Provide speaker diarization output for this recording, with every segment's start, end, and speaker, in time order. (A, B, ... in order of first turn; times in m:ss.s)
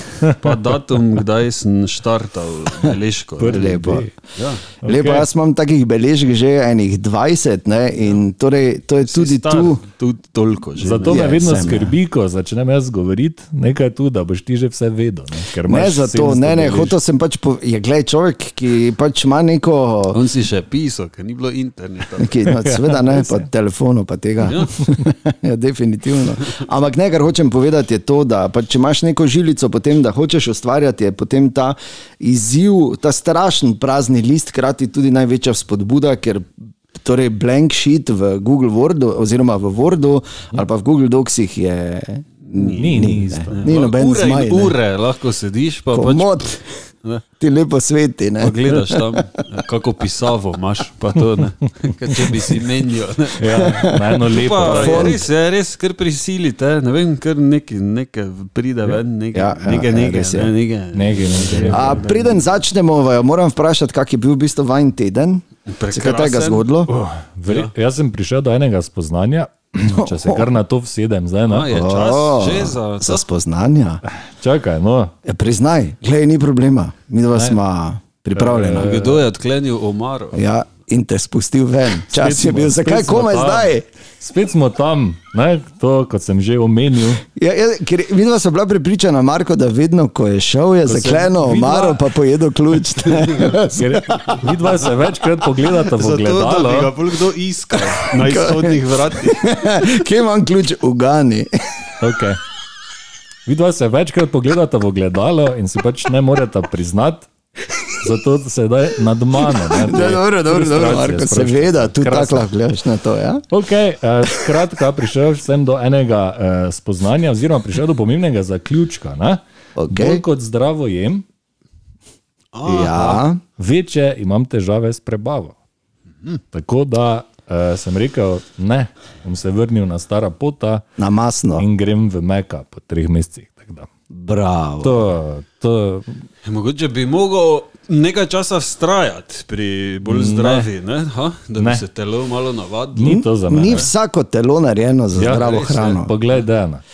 0:00.2-0:04.6 A
0:03.4-0:04.1 B
0:03.5-0:04.1 C
0:04.8-0:05.3 B
0:04.8-0:09.8 C
0:09.0-0:11.5 A
0:10.8-0:17.0 B
0:11.0-0:11.9 C
0:15.7-0:20.2 C
0:20.1-0:22.5 A
0:22.2-0:44.8 C
0:22.5-0:23.4 B
0:24.4-0:24.7 A
0:42.4-0:47.2 A
0:42.8-0:43.6 B
0:45.9-0:46.7 C
0:47.4-0:49.4 C
0:48.4-0:53.7 A
0:53.4-0:55.2 B
0:53.5-0:55.2 C
0:54.2-1:02.5 A
0:59.3-1:00.5 C
1:00.9-1:02.0 B
1:01.7-1:06.9 C
1:05.7-1:06.6 A
1:06.9-1:11.7 B
1:07.5-1:07.7 A
1:09.8-1:10.5 C
1:11.5-1:13.2 A
1:11.7-1:14.0 C
1:14.1-1:15.1 B
1:15.2-1:19.1 C
1:18.4-1:19.0 B
1:18.5-1:20.4 A
1:20.3-1:23.8 C
1:22.1-1:27.2 B
1:27.3-1:34.6 C
1:30.8-1:32.1 B
1:33.7-1:36.9 B
1:35.8-1:39.4 A
1:37.9-1:41.5 C
1:42.0-1:42.4 B
1:43.4-1:47.3 B
1:48.0-1:52.4 B
1:49.4-1:53.4 C
1:53.5-2:01.2 B
1:59.8-2:00.2 C
2:02.5-2:03.2 A
2:02.6-2:03.4 C
2:03.6-2:05.5 B
2:06.5-2:10.8 B
2:11.0-2:11.6 C
2:11.6-2:13.9 B
2:14.1-2:15.0 C
2:14.8-2:16.3 B
2:16.4-2:23.8 A
2:20.1-2:20.7 B
2:21.6-2:21.8 B
2:22.9-2:23.9 B
2:23.0-2:26.1 C
2:25.1-2:26.8 B
2:25.2-2:26.0 A